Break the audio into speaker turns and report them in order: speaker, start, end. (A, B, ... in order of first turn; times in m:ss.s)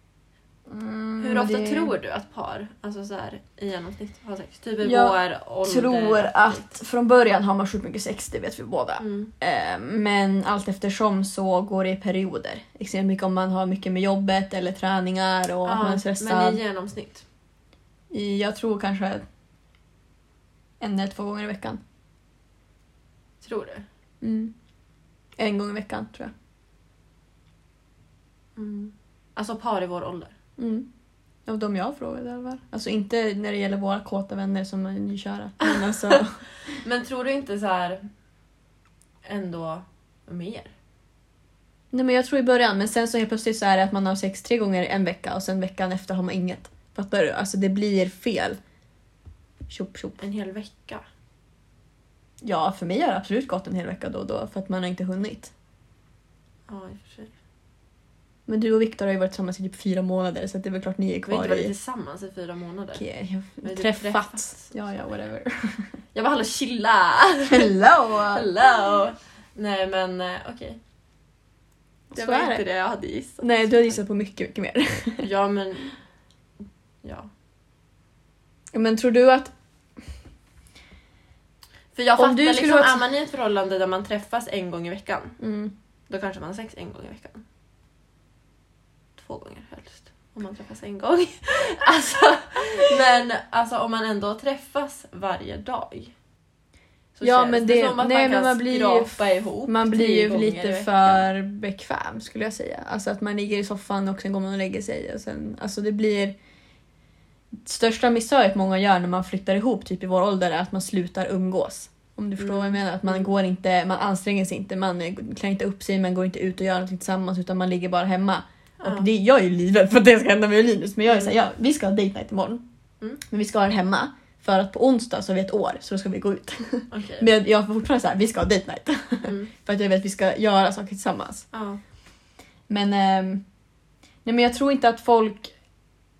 0:00.7-0:01.9 A
0:01.2-0:06.7 B
0:04.8-0:16.6 A
0:09.0-0:09.3 B
0:15.6-0:17.2 B
0:18.1-0:19.2 A
0:20.8-0:21.8 A
0:23.4-0:23.8 B
0:24.2-0:24.5 A
0:25.4-0:26.3 A
0:28.6-0:30.3 B
0:30.6-0:30.9 A
0:31.4-0:36.4 A
0:35.6-0:38.0 B
0:39.2-0:40.7 B
0:41.9-0:48.6 A
0:49.7-0:50.2 A
0:50.2-0:51.0 B
0:52.4-0:55.5 A
0:56.7-0:57.3 B
0:58.5-1:01.7 A
1:01.2-1:03.0 B
1:02.9-1:05.9 A
1:03.6-1:04.7 B
1:06.1-1:07.7 B
1:07.5-1:08.5 A
1:08.2-1:10.8 B
1:12.1-1:12.6 A
1:12.1-1:13.9 B
1:13.4-1:15.3 A
1:15.2-1:16.0 B
1:17.0-1:17.3 B
1:18.7-1:19.5 A
1:21.9-1:25.4 B
1:22.2-1:23.0 A
1:25.4-1:25.7 A
1:26.1-1:27.4 B
1:29.2-1:36.1 B
1:37.2-1:41.3 B
1:37.2-1:46.4 A
1:47.6-2:02.6 A
1:52.4-1:53.3 B
1:58.8-1:59.1 B
2:01.1-2:01.3 B
2:03.2-2:11.4 A
2:06.9-2:07.3 B
2:09.2-2:09.5 B
2:11.5-2:11.8 B
2:12.7-2:13.4 A
2:14.2-2:15.5 A